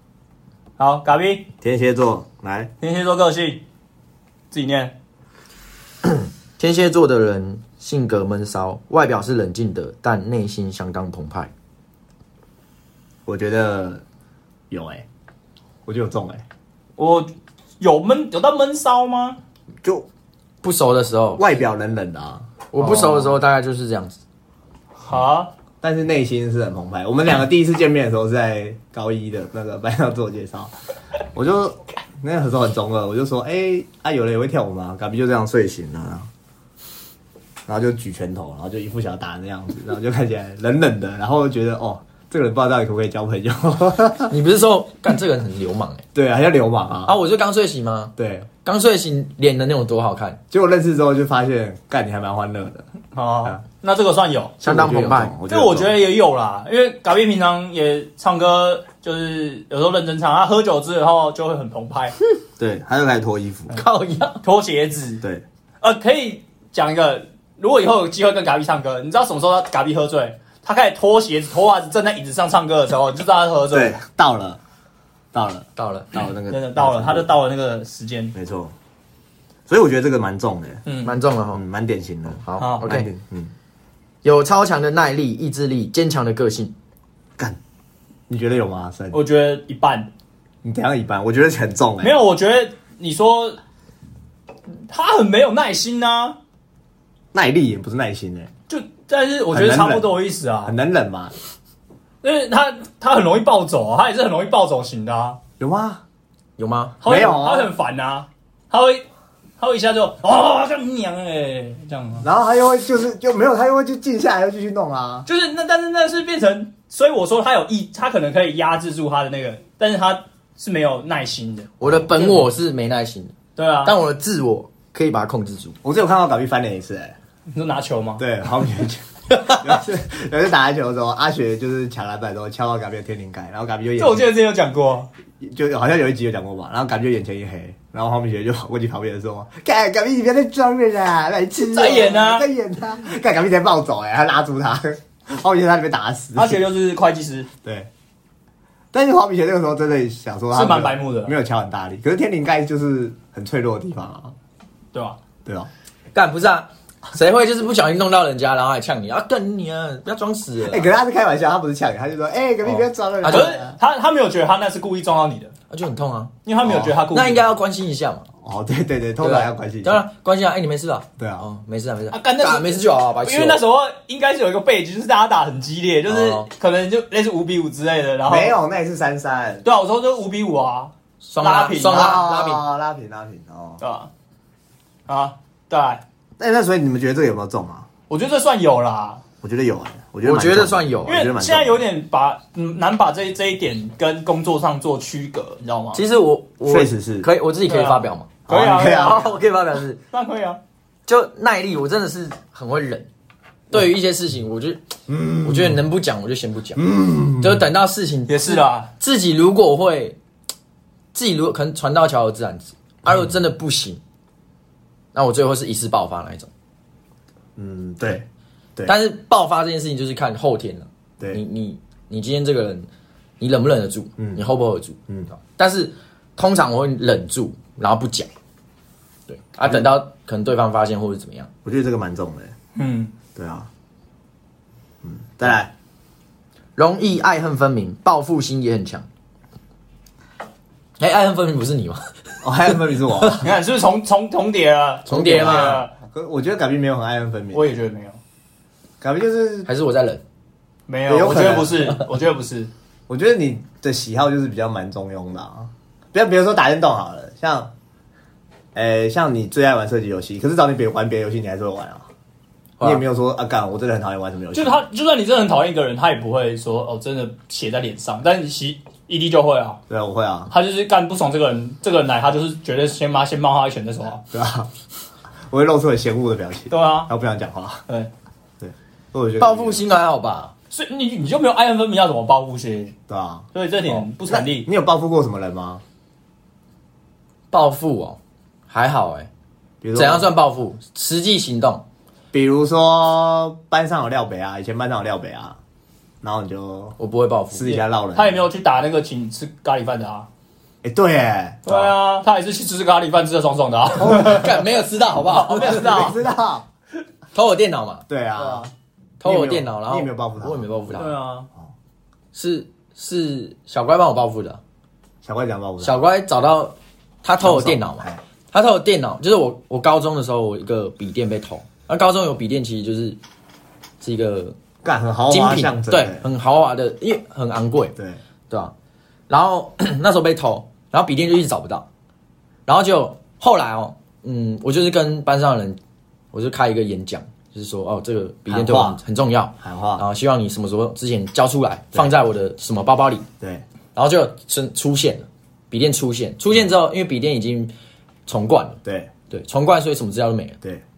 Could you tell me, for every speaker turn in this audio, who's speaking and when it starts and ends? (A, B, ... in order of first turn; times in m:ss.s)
0:00.8-0:01.5 A
0:01.6-0:02.7 B
0:02.8-0:03.6 A
0:04.5-0:04.9 A
0:06.0-0:11.5 C
0:13.2-0:14.0 B
0:14.7-0:15.0 B
0:15.8-0:16.4 B
0:17.0-0:19.4 A
0:20.6-0:21.6 C
0:21.4-0:23.3 B
0:22.7-0:24.2 C
0:25.0-0:25.5 A
0:25.8-0:30.7 B
0:31.3-0:36.3 B
0:37.7-0:44.3 B
0:44.3-0:46.0 C
0:46.1-0:47.2 B
0:47.0-0:48.1 C
0:48.2-0:48.5 B
0:48.6-0:50.4 C
0:50.5-0:52.9 B
0:53.1-0:54.6 A
0:54.6-0:55.3 C
0:54.6-0:56.0 B
0:55.5-1:02.1 A
1:02.6-1:03.8 B
1:03.7-1:04.4 C
1:04.4-1:05.2 A
1:05.8-1:14.0 A
1:13.7-1:14.6 B
1:15.3-1:17.3 B
1:15.8-1:16.1 C
1:16.5-1:18.3 A
1:18.3-1:18.7 B
1:19.7-1:20.8 B
1:20.8-1:21.1 A
1:21.0-1:21.6 C
1:21.5-1:23.5 B
1:22.4-1:23.1 C
1:22.6-1:22.9 A
1:24.2-1:26.7 C
1:28.3-1:29.2 B
1:29.1-1:30.1 A
1:30.6-1:32.2 B
1:32.0-1:33.6 A
1:34.9-1:36.4 A
1:37.3-1:38.5 B
1:38.7-1:40.7 A
1:39.5-1:41.3 B
1:42.2-1:45.4 A
1:45.6-1:46.0 B
1:46.6-1:47.0 C
1:47.0-1:49.0 A
1:47.0-1:47.7 B
1:49.6-1:52.3 A
1:52.2-1:55.3 B
1:55.2-2:02.4 A
2:01.8-2:05.8 C
2:01.8-2:02.1 B
2:03.6-2:03.9 A
2:05.8-2:07.2 B
2:07.5-2:08.2 A
2:08.2-2:14.3 B
2:14.0-2:15.1 A
2:15.4-2:26.6 B
2:21.7-2:22.5 A
2:26.3-2:27.5 A
2:27.6-2:27.9 B
2:28.9-2:34.3 B
2:30.5-2:31.4 A
2:34.9-2:35.2 A
2:35.4-2:35.7 B
2:36.1-2:40.9 C
2:40.6-2:43.8 B
2:42.6-2:43.5 C
2:43.2-2:45.5 A
2:45.7-2:46.3 C
2:46.4-2:47.6 A
2:46.6-2:47.0 B
2:47.1-2:48.3 C
2:48.4-2:50.0 B
2:49.2-2:53.6 C
2:51.2-2:51.4 B
2:52.1-2:58.5 A
2:56.1-2:56.5 C
2:58.3-2:59.6 B
2:59.6-3:02.2 A
3:01.2-3:02.6 C
3:01.9-3:03.8 B
3:03.8-3:04.1 A
3:05.1-3:06.0 A
3:06.4-3:07.9 B
3:08.1-3:09.2 A
3:09.4-3:11.8 B
3:10.2-3:11.2 C
3:11.0-3:16.0 A
3:15.9-3:20.0 C
3:16.7-3:17.3 B
3:17.7-3:19.3 A
3:18.5-3:19.4 B
3:20.1-3:20.6 A
3:21.1-3:23.1 C
3:23.7-3:26.8 C
3:25.1-3:25.8 B
3:26.8-3:27.6 B
3:27.4-3:30.2 C
3:28.3-3:28.9 A
3:31.1-3:34.0 C
3:33.0-3:33.3 B
3:35.1-3:36.5 C
3:37.6-3:38.9 B
3:38.8-3:42.9 C
3:43.4-3:48.3 C
3:49.3-3:51.5 C
3:49.6-3:49.9 B
3:51.6-3:52.5 B
3:52.7-3:53.1 A
3:53.3-3:53.7 B
3:55.0-3:55.7 B
3:56.8-3:59.0 C
4:01.0-4:02.1 C
4:02.4-4:03.5 B
4:03.4-4:05.9 A
4:05.1-4:05.8 C
4:05.4-4:07.7 B
4:07.5-4:08.2 A
4:09.0-4:09.7 B
4:09.7-4:10.2 C
4:10.9-4:12.7 A
4:11.1-4:12.0 B
4:13.1-4:17.7 B
4:18.7-4:22.0 B
4:22.8-4:24.8 B
4:24.5-4:29.8 A
4:29.9-4:30.5 B
4:30.5-4:34.2 A
4:34.3-4:34.7 B
4:35.5-4:37.8 B
4:36.7-4:37.1 A
4:38.6-4:39.8 B
4:39.4-4:40.5 C
4:40.7-4:42.9 A
4:43.1-4:43.5 B
4:43.5-4:44.7 A
4:44.3-4:45.8 B
4:47.5-4:48.2 C
4:48.7-4:49.3 C
4:49.8-4:50.3 B
4:49.9-4:51.8 C
4:52.3-4:55.6 B
4:56.2-4:57.0 B
4:57.0-4:57.8 C
4:57.5-4:58.4 B
4:58.1-5:00.3 A
5:00.8-5:01.9 B
5:01.6-5:04.6 A
5:03.9-5:06.1 C
5:04.1-5:04.5 B
5:05.2-5:06.2 A
5:05.6-5:06.6 B
5:07.3-5:08.0 C
5:08.1-5:08.7 B
5:09.2-5:11.2 C
5:09.2-5:10.7 B
5:10.9-5:11.5 A
5:12.3-5:14.6 C
5:15.2-5:16.0 B
5:15.8-5:23.2 C
5:17.4-5:18.2 B
5:24.0-5:24.5 C
5:24.8-5:26.2 B
5:25.3-5:28.0 C
5:29.3-5:31.8 C
5:32.6-5:35.8 C
5:36.3-5:43.3 C
5:38.5-5:39.0 B
5:39.6-5:40.0 B
5:43.9-5:47.7 C
5:48.2-5:48.8 C
5:48.8-5:49.1 B
5:49.3-5:50.6 C